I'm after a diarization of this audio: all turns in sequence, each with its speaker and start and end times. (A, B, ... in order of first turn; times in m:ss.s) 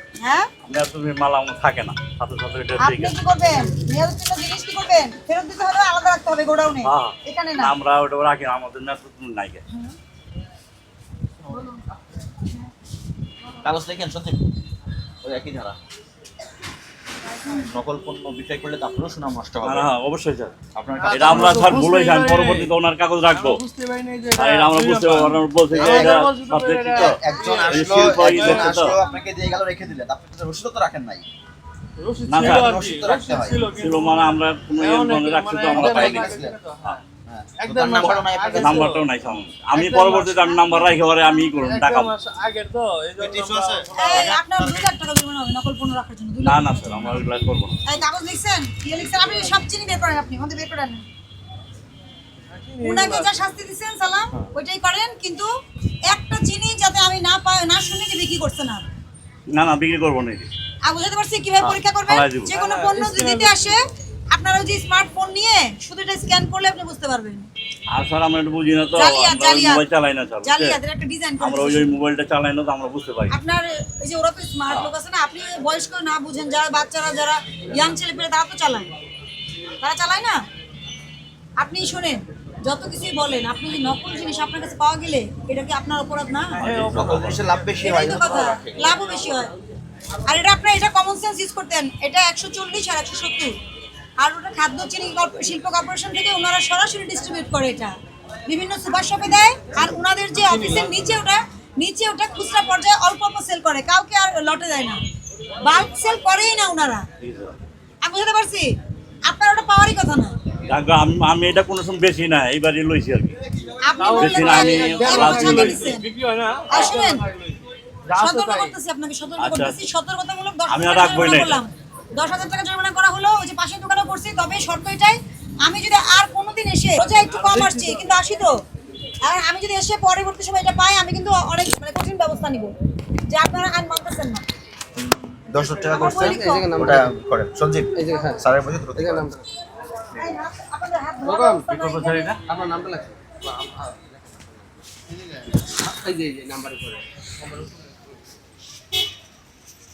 0:00.2-0:00.5 A
0:00.6-0:03.1 B
0:02.8-0:07.7 A
0:06.8-0:09.6 B
0:09.7-0:09.9 A
0:13.6-0:14.4 C
0:15.2-0:15.8 C
0:17.5-0:19.9 C
0:19.6-0:20.5 B
0:20.7-0:21.7 C
0:21.0-0:22.7 D
0:21.1-0:23.6 B
0:23.3-0:28.8 D
0:24.4-0:28.9 B
0:25.7-0:26.1 C
0:26.9-0:31.3 C
0:27.1-0:29.7 A
0:32.0-0:37.0 D
0:32.3-0:32.7 B
0:32.4-0:33.7 C
0:33.7-0:37.0 B
0:35.6-0:36.6 C
0:37.3-0:39.1 C
0:37.6-0:39.0 D
0:38.5-0:42.1 B
0:39.7-0:40.5 D
0:40.6-0:41.2 A
0:41.5-0:44.4 D
0:43.2-0:44.3 C
0:43.9-0:47.2 A
0:46.4-0:47.8 B
0:47.8-0:51.0 A
0:52.5-0:53.3 D
0:52.8-0:55.5 A
0:56.0-0:58.9 A
0:59.5-1:00.5 B
1:00.8-1:07.5 A
1:01.6-1:02.6 B
1:02.5-1:03.8 D
1:07.9-1:10.8 B
1:08.9-1:09.8 A
1:10.4-1:11.9 A
1:11.4-1:13.4 B
1:13.3-1:18.9 A
1:19.8-1:20.4 A
1:21.6-1:26.6 A
1:26.6-1:27.4 B
1:26.6-1:26.9 D
1:26.6-1:29.0 C
1:27.8-1:29.5 A
1:30.2-1:33.5 A
1:34.2-1:37.9 A
1:38.5-1:45.0 A
1:40.4-1:41.1 D
1:45.6-1:47.0 A
1:47.2-1:47.6 B
1:48.0-1:50.3 A
1:50.7-1:53.4 B
1:53.8-1:56.1 A
1:54.0-1:58.7 D
1:54.1-1:56.0 B
1:56.7-1:57.2 A
1:58.1-2:08.6 A
1:59.4-1:59.8 B
2:00.7-2:01.6 B
2:07.2-2:08.0 D
2:09.2-2:12.7 A
2:13.3-2:14.4 A
2:15.0-2:19.3 C
2:15.9-2:16.7 A
2:16.2-2:17.2 E
2:17.9-2:18.4 E
2:19.0-2:19.4 E
2:20.1-2:22.3 A
2:21.2-2:21.6 E
2:21.7-2:22.4 B
2:22.4-2:27.7 E